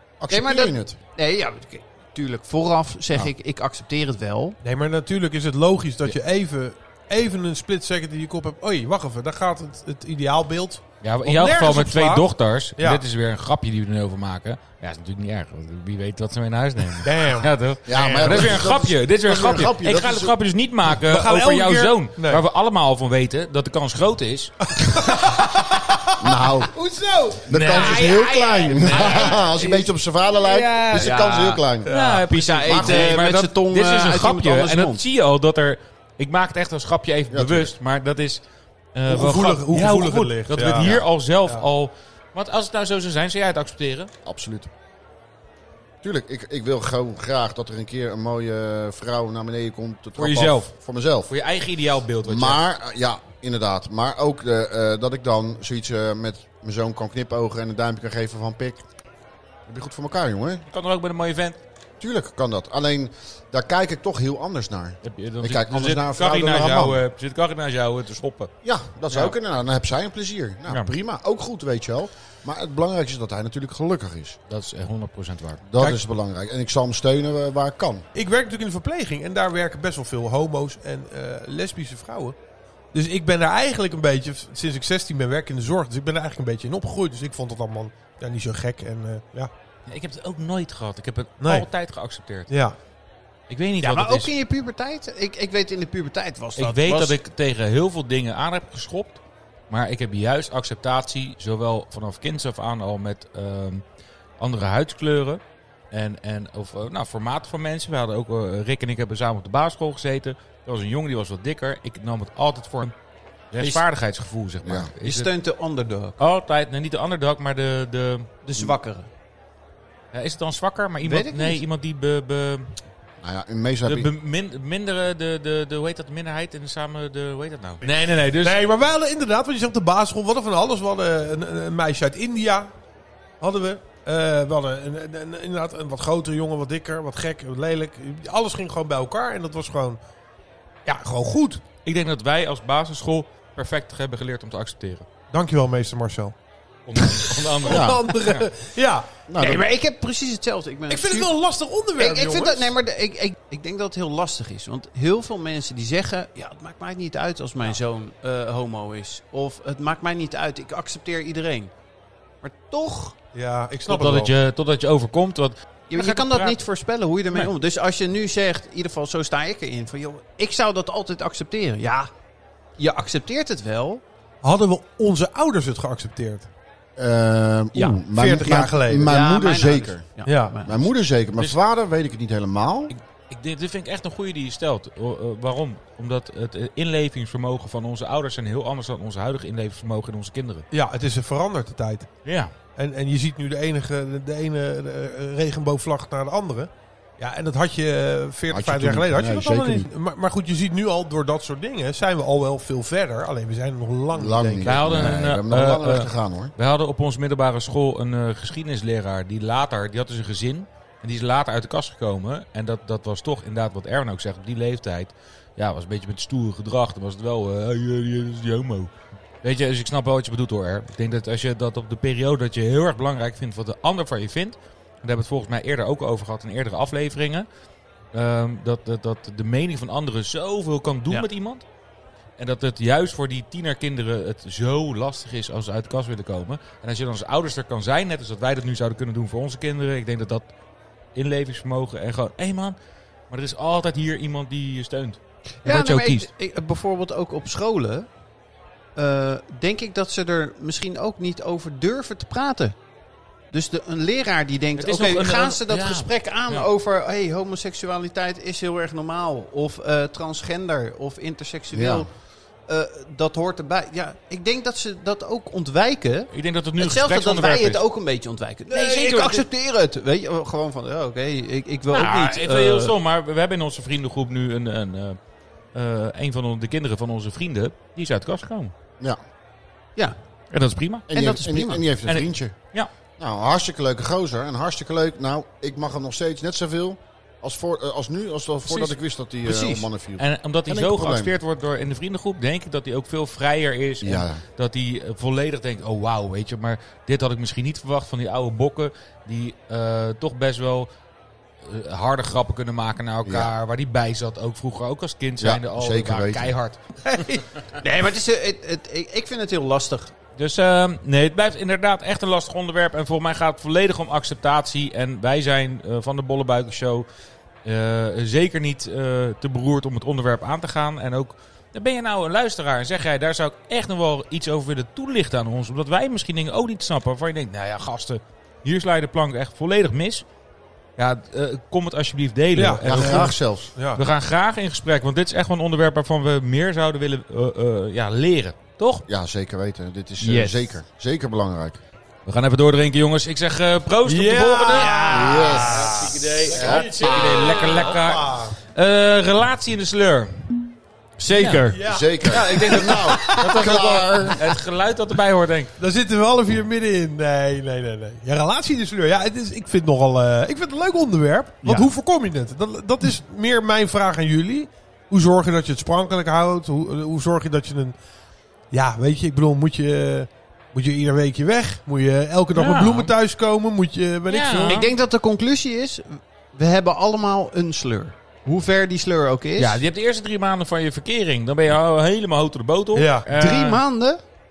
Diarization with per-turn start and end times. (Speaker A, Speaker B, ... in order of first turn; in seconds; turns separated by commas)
Speaker A: 0.2-1.0, Speaker B: 0.3-4.6, Speaker C: 4.6-13.0, Speaker D: 11.0-25.2, Speaker C: 17.0-17.5, Speaker A: 17.9-20.3, Speaker C: 18.1-18.6, Speaker C: 21.0-22.4, Speaker C: 24.7-28.0, Speaker A: 26.2-26.7, Speaker A: 27.4-31.9, Speaker D: 27.5-29.9, Speaker B: 28.9-29.6, Speaker D: 30.4-31.1, Speaker B: 30.7-31.6, Speaker C: 31.8-32.2, Speaker D: 31.9-38.4, Speaker B: 32.2-35.0, Speaker A: 32.6-33.1, Speaker A: 37.3-37.7, Speaker D: 38.9-44.1, Speaker C: 39.1-41.6, Speaker A: 44.2-44.7, Speaker A: 46.0-51.3, Speaker D: 50.2-50.7, Speaker D: 51.3-52.6, Speaker A: 52.2-58.8, Speaker A: 59.7-60.6, Speaker D: 60.7-61.6, Speaker A: 62.0-67.0, Speaker D: 65.0-68.5, Speaker A: 68.6-74.4, Speaker D: 69.1-69.3, Speaker D: 74.5-75.6, Speaker A: 75.7-78.0, Speaker C: 78.1-82.3, Speaker C: 82.9-89.5, Speaker D: 89.9-92.5, Speaker C: 91.4-91.7, Speaker C: 92.5-92.8, Speaker D: 93.5-94.3, Speaker B: 93.8-97.2, Speaker D: 96.6-103.8, Speaker D: 104.4-105.4, Speaker D: 105.9-112.9, Speaker D: 113.5-115.3, Speaker B: 113.6-113.8, Speaker A: 114.6-114.9, Speaker B: 115.0-116.2, Speaker D: 116.2-118.3, Speaker B: 118.4-119.1, Speaker D: 120.1-122.7, Speaker B: 121.0-121.6, Speaker A: 123.2-124.1, Speaker D: 123.8-128.6, Speaker C: 127.8-132.7, Speaker C: 133.4-140.0, Speaker C: 140.8-141.6, Speaker D: 141.8-145.1, Speaker C: 145.3-146.3, Speaker D: 146.8-148.5, Speaker C: 146.9-149.1, Speaker A: 147.6-148.0, Speaker A: 149.3-149.6, Speaker B: 149.3-151.3, Speaker C: 150.9-152.7, Speaker B: 152.0-161.7, Speaker B: 162.4-163.1, Speaker C: 163.3-164.3, Speaker D: 163.9-166.6, Speaker B: 165.9-172.1, Speaker B: 172.8-174.0, Speaker C: 174.4-176.5, Speaker A: 177.0-180.1, Speaker C: 178.1-179.1, Speaker B: 179.0-180.8, Speaker C: 180.2-180.6, Speaker A: 180.6-182.9, Speaker D: 182.9-190.7, Speaker C: 190.7-192.1, Speaker D: 192.2-192.5, Speaker C: 192.7-205.1, Speaker A: 198.5-199.9, Speaker A: 204.1-206.5, Speaker D: 204.6-218.9, Speaker D: 219.4-227.5, Speaker D: 228.1-231.6, Speaker D: 232.4-240.5, Speaker D: 241.1-242.8, Speaker D: 243.3-246.3, Speaker B: 245.6-248.1, Speaker B: 248.9-252.8, Speaker B: 253.5-262.1, Speaker D: 254.8-256.7, Speaker A: 261.7-262.1, Speaker B: 262.7-272.9, Speaker D: 266.3-267.8, Speaker D: 268.7-269.4, Speaker D: 271.9-275.2, Speaker D: 275.7-278.7, Speaker D: 280.5-281.1, Speaker A: 281.1-282.6, Speaker B: 281.1-281.8, Speaker D: 282.1-282.9, Speaker A: 283.2-291.3, Speaker D: 288.6-288.9, Speaker B: 289.4-289.9, Speaker D: 290.2-300.9, Speaker A: 294.0-294.4, Speaker D: 301.6-306.8, Speaker A: 303.2-303.5, Speaker A: 305.4-306.5, Speaker C: 307.1-307.4, Speaker B: 307.8-310.1, Speaker D: 310.4-317.1, Speaker D: 317.6-330.2, Speaker D: 331.0-339.1, Speaker C: 332.5-334.0, Speaker A: 332.8-333.7, Speaker A: 339.1-341.8, Speaker B: 340.2-340.7, Speaker D: 342.2-350.6, Speaker C: 344.0-348.6, Speaker B: 344.7-346.0, Speaker A: 345.1-347.5, Speaker B: 351.2-353.7, Speaker D: 351.3-351.7, Speaker C: 351.7-352.1, Speaker A: 351.9-354.6, Speaker D: 352.2-355.7, Speaker C: 355.8-367.9, Speaker B: 361.6-361.9, Speaker C: 368.7-374.8, Speaker D: 372.5-373.1, Speaker D: 374.3-374.9, Speaker B: 374.7-379.8, Speaker D: 379.6-383.8, Speaker C: 382.9-383.3, Speaker B: 383.3-384.2